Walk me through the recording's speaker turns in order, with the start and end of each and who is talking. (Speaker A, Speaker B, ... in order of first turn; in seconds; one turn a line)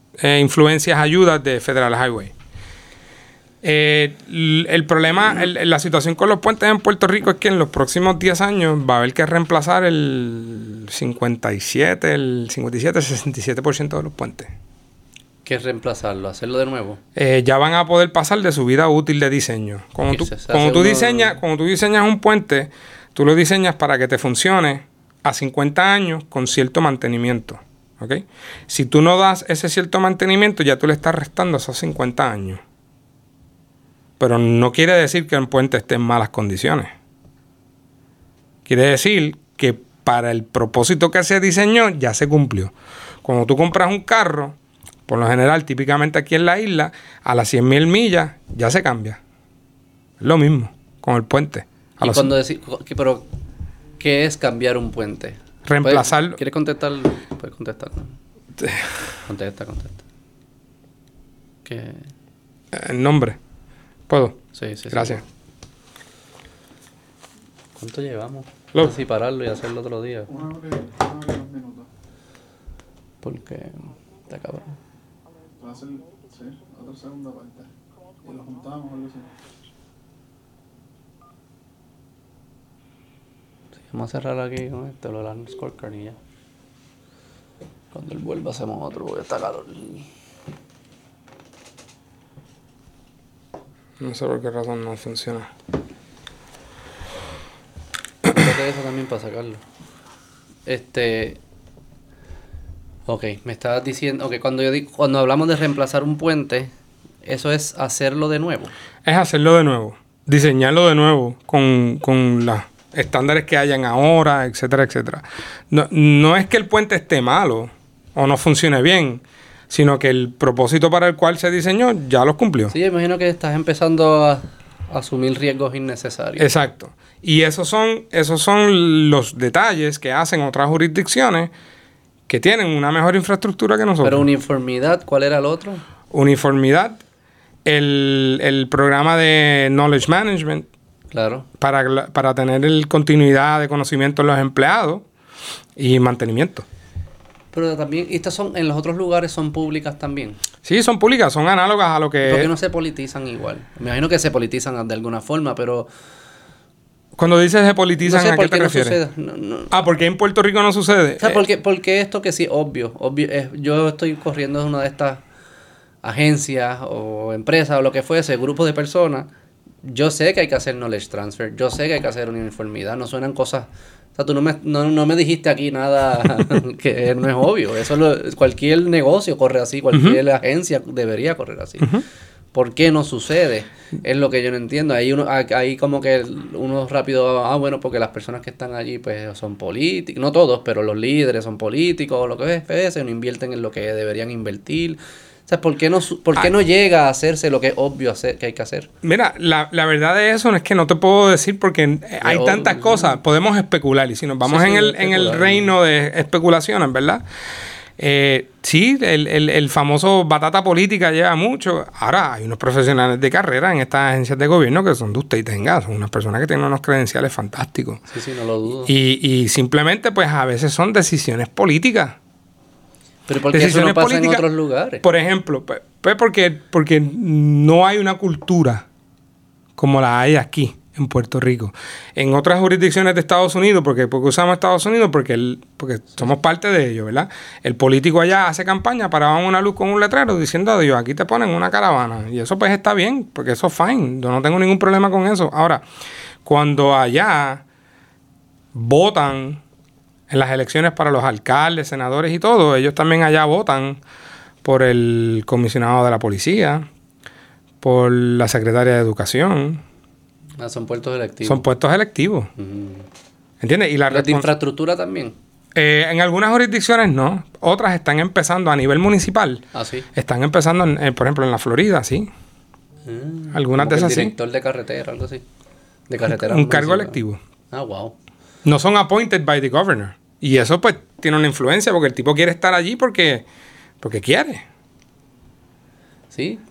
Speaker A: 0.2-2.3
Speaker A: 3.6-14.5
Speaker B: 15.4-17.0
Speaker A: 17.1-32.6
Speaker B: 20.1-21.4
Speaker A: 34.2-37.0
Speaker A: 38.7-44.6
Speaker A: 45.1-49.2
Speaker A: 50.2-52.3
Speaker B: 52.0-53.3
Speaker B: 54.0-58.2
Speaker A: 55.7-56.4
Speaker A: 58.6-59.0
Speaker B: 59.3-60.0
Speaker B: 61.6-62.1
Speaker A: 62.7-63.4
Speaker A: 64.1-65.2
Speaker B: 64.5-65.2
Speaker B: 67.8-70.3
Speaker C: 70.3-71.9
Speaker B: 73.2-74.7
Speaker C: 75.6-77.7
Speaker C: 78.2-79.3
Speaker B: 83.9-86.2
Speaker B: 87.9-90.1
Speaker A: 94.0-95.5
Speaker B: 98.3-99.6
Speaker B: 100.7-101.4
Speaker B: 103.1-106.7
Speaker B: 107.2-108.7
Speaker A: 109.0-122.7
Speaker B: 122.7-126.5
Speaker A: 126.4-131.5
Speaker A: 132.3-134.3
Speaker B: 134.0-135.8
Speaker A: 136.1-137.0
Speaker A: 137.7-140.7
Speaker B: 141.1-141.5
Speaker A: 141.6-145.1
Speaker A: 145.8-146.7
Speaker B: 147.5-150.4
Speaker A: 150.6-152.5
Speaker B: 152.2-155.9
Speaker A: 157.2-159.0
Speaker B: 158.0-159.8
Speaker A: 159.7-161.4
Speaker B: 161.2-165.2
Speaker B: 166.0-169.3
Speaker B: 169.8-181.9
Speaker A: 179.9-180.2
Speaker B: 182.5-198.9
Speaker A: 199.0-207.2
Speaker B: 202.2-203.2
Speaker B: 204.4-205.7
Speaker A: 208.0-218.0
Speaker B: 218.1-218.9
Speaker A: 218.8-222.2
Speaker B: 223.3-225.1
Speaker A: 223.5-224.4
Speaker A: 225.0-228.9
Speaker A: 229.8-245.8
Speaker A: 246.4-247.6
Speaker A: 248.7-249.6
Speaker A: 250.3-254.0
Speaker A: 254.6-256.9
Speaker A: 257.8-259.8
Speaker B: 260.6-261.6
Speaker A: 261.4-262.5
Speaker B: 262.6-263.1
Speaker A: 263.6-264.5
Speaker B: 264.1-265.4
Speaker A: 265.8-272.3
Speaker B: 269.7-270.1
Speaker B: 273.1-275.4
Speaker A: 273.5-274.3
Speaker B: 276.1-277.2
Speaker A: 276.2-277.4
Speaker B: 277.7-278.1
Speaker A: 278.6-283.5
Speaker A: 284.0-284.6
Speaker B: 286.3-286.6